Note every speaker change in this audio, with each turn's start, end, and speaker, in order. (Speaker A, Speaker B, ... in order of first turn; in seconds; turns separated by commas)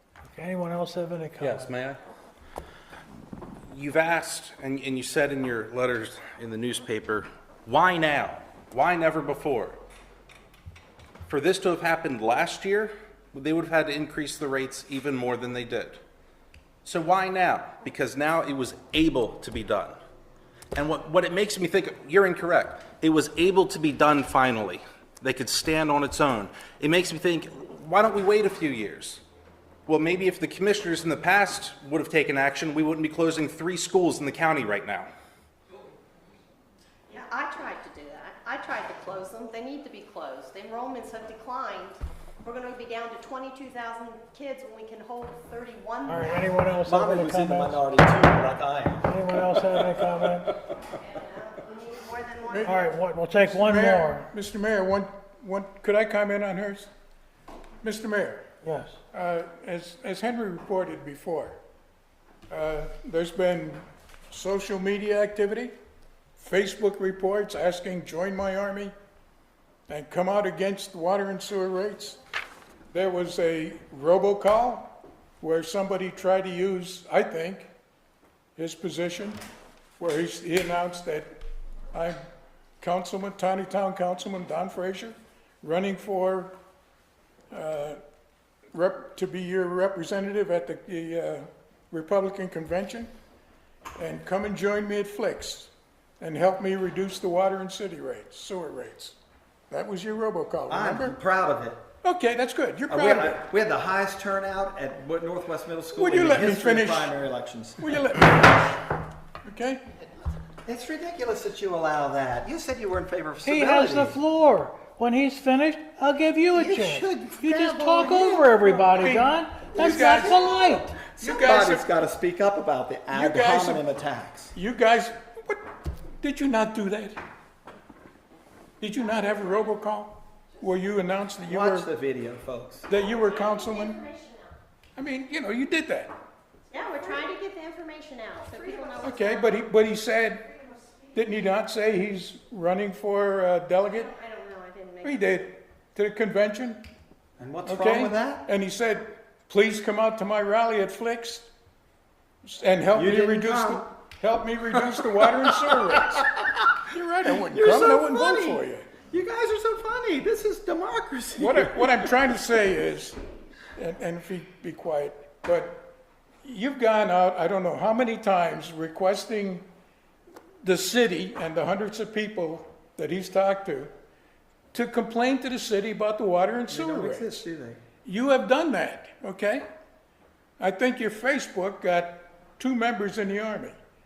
Speaker A: 0.2-1.7, Speaker B: 1.4-2.0, Speaker B: 3.7-9.8, Speaker B: 11.3-16.0, Speaker B: 16.8-19.9, Speaker B: 20.7-29.2, Speaker B: 29.9-35.1, Speaker C: 37.1-46.6, Speaker A: 46.0-47.8, Speaker D: 46.8-49.1, Speaker A: 49.0-50.6, Speaker C: 50.9-52.9, Speaker E: 52.5-52.8, Speaker A: 52.6-54.3, Speaker E: 53.4-56.9, Speaker E: 57.8-58.4, Speaker A: 58.6-59.0, Speaker E: 59.1-61.6, Speaker E: 62.5-65.7, Speaker E: 66.4-68.9, Speaker E: 69.9-72.2, Speaker E: 72.9-77.7, Speaker E: 78.5-79.4, Speaker E: 80.0-81.4, Speaker E: 81.9-82.2, Speaker E: 82.8-86.5, Speaker E: 87.5-88.0, Speaker E: 88.7-93.1, Speaker E: 94.0-99.2, Speaker E: 99.7-101.2, Speaker D: 100.7-101.8, Speaker E: 102.0-103.4, Speaker D: 102.9-108.0, Speaker E: 105.9-107.1, Speaker E: 107.8-108.7, Speaker E: 109.4-109.8, Speaker D: 110.7-114.2, Speaker A: 113.4-121.0, Speaker D: 116.5-118.5, Speaker E: 118.7-120.6, Speaker E: 121.2-121.8, Speaker D: 121.2-124.5, Speaker E: 123.1-123.8, Speaker E: 124.5-125.6, Speaker E: 126.2-127.2, Speaker E: 128.8-131.9, Speaker D: 131.4-132.9, Speaker E: 132.9-134.1, Speaker C: 133.1-134.5, Speaker E: 134.9-136.1, Speaker C: 136.7-139.6, Speaker E: 139.0-140.5, Speaker E: 141.1-144.1, Speaker C: 143.9-145.4, Speaker E: 145.0-146.8, Speaker D: 147.4-148.4, Speaker E: 147.7-151.5, Speaker E: 152.4-156.3, Speaker D: 152.9-153.9, Speaker D: 155.2-156.2, Speaker E: 156.8-158.9, Speaker D: 157.4-162.1, Speaker E: 161.4-163.2, Speaker E: 163.8-165.9, Speaker E: 166.4-169.7, Speaker E: 170.6-173.9, Speaker E: 174.7-177.4, Speaker D: 176.7-177.8, Speaker E: 178.0-179.6, Speaker E: 180.6-183.8